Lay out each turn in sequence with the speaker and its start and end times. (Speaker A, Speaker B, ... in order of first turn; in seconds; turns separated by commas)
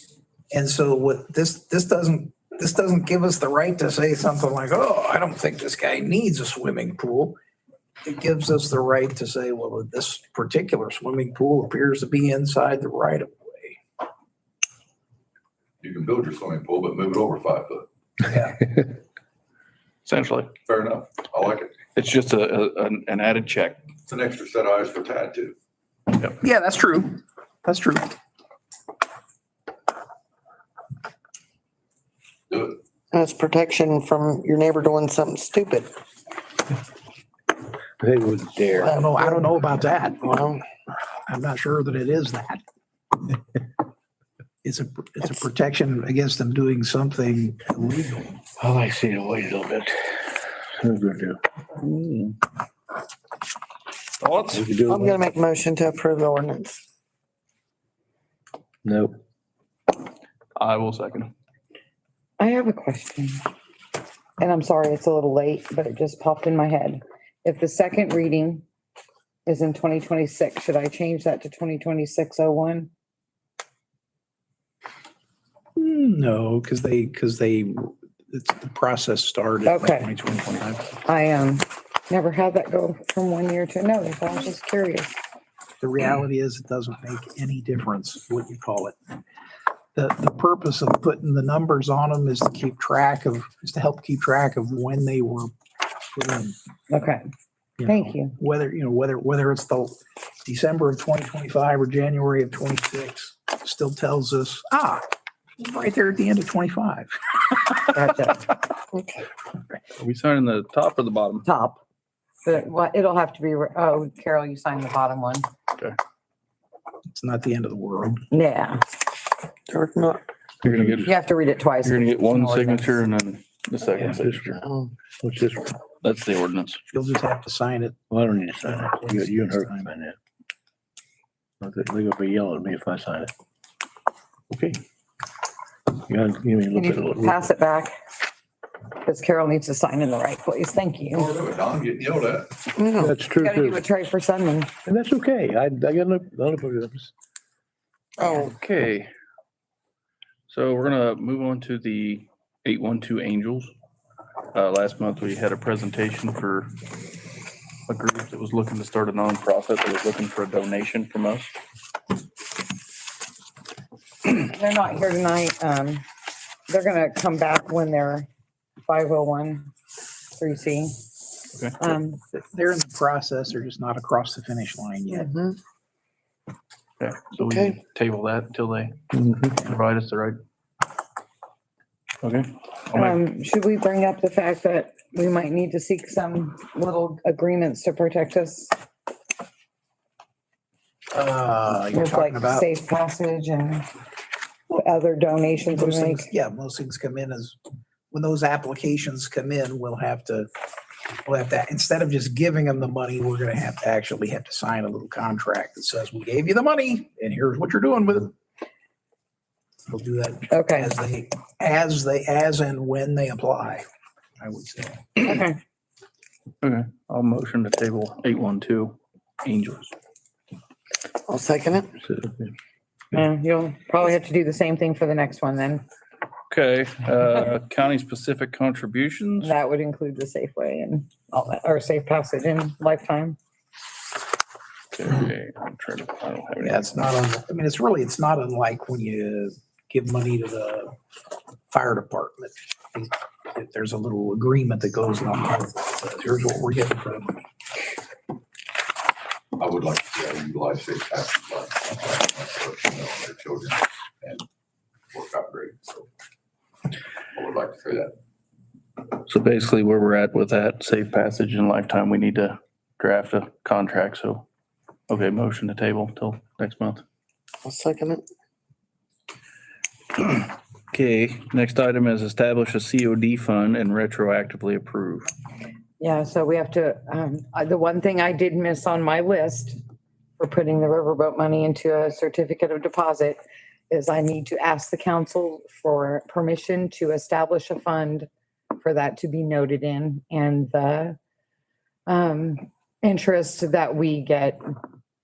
Speaker A: 0.5-7.4, Speaker A: 8.0-13.8, Speaker B: 15.8-17.9, Speaker A: 18.3-18.5, Speaker C: 20.1-20.5, Speaker B: 20.6-21.8, Speaker C: 21.9-23.9, Speaker B: 24.1-25.6, Speaker A: 26.4-28.1, Speaker B: 32.5-32.8, Speaker D: 33.1-35.9, Speaker E: 38.0-38.9, Speaker D: 38.8-39.4, Speaker A: 38.9-40.4, Speaker D: 40.2-40.6, Speaker A: 41.3-42.6, Speaker A: 44.6-48.4, Speaker E: 48.6-50.2, Speaker E: 50.8-51.4, Speaker C: 51.8-52.4, Speaker C: 54.2-54.6, Speaker E: 54.5-55.2, Speaker D: 54.8-56.8, Speaker E: 58.8-59.1, Speaker C: 60.6-61.3, Speaker F: 62.4-63.4, Speaker F: 64.4-68.6, Speaker F: 69.5-72.9, Speaker A: 75.8-81.0, Speaker F: 79.7-80.1, Speaker F: 81.0-85.1, Speaker A: 85.8-89.0, Speaker A: 89.9-95.5, Speaker A: 96.1-96.5, Speaker F: 96.9-97.3, Speaker A: 97.8-107.9, Speaker F: 97.8-98.3, Speaker F: 107.9-108.5, Speaker D: 108.9-109.2, Speaker C: 110.0-111.5, Speaker F: 111.4-111.8, Speaker F: 112.4-115.5, Speaker A: 117.1-118.2, Speaker F: 118.3-118.8, Speaker D: 119.7-120.2, Speaker C: 120.6-121.1, Speaker E: 120.6-121.0, Speaker F: 121.0-123.0, Speaker C: 121.8-124.6, Speaker E: 124.0-124.6, Speaker D: 124.6-124.9, Speaker E: 125.2-125.8, Speaker C: 126.0-126.8, Speaker A: 126.9-128.0, Speaker E: 128.1-130.2, Speaker A: 129.2-129.7, Speaker E: 131.6-133.3, Speaker E: 134.5-134.8, Speaker E: 136.0-137.4, Speaker F: 136.7-137.9, Speaker F: 138.9-141.3, Speaker B: 141.1-142.6, Speaker D: 142.7-143.1, Speaker E: 142.9-143.8, Speaker F: 143.3-144.7, Speaker E: 144.8-147.1, Speaker D: 148.2-148.5, Speaker C: 148.2-149.1, Speaker C: 150.5-153.7, Speaker C: 154.5-156.7, Speaker C: 157.9-161.5, Speaker F: 164.2-166.0, Speaker F: 166.7-168.3, Speaker F: 168.8-169.7, Speaker F: 170.4-171.0, Speaker F: 171.8-172.2, Speaker A: 172.3-175.3, Speaker D: 175.1-175.6, Speaker C: 177.0-179.0, Speaker D: 177.4-177.8, Speaker E: 179.2-179.5, Speaker C: 179.5-180.4, Speaker C: 182.2-183.2, Speaker F: 182.9-188.7, Speaker A: 191.1-192.7, Speaker F: 191.9-193.9, Speaker F: 194.7-196.3, Speaker A: 195.7-197.6, Speaker A: 198.1-200.5, Speaker A: 201.2-208.3, Speaker A: 209.9-213.8, Speaker F: 210.5-210.9, Speaker A: 214.4-215.4, Speaker F: 215.2-215.6, Speaker C: 216.6-219.9, Speaker D: 221.2-221.9, Speaker E: 222.0-222.4, Speaker F: 223.1-225.8, Speaker C: 226.5-229.5, Speaker F: 229.4-233.4, Speaker C: 234.9-237.1, Speaker A: 236.6-240.9, Speaker A: 241.7-247.4, Speaker B: 249.6-254.4, Speaker B: 255.1-256.1, Speaker B: 257.3-258.1, Speaker C: 259.1-264.4, Speaker C: 265.1-267.0, Speaker D: 267.6-268.2, Speaker C: 270.2-275.3, Speaker F: 276.0-279.8, Speaker F: 280.4-283.4, Speaker F: 283.9-291.2, Speaker F: 292.1-294.6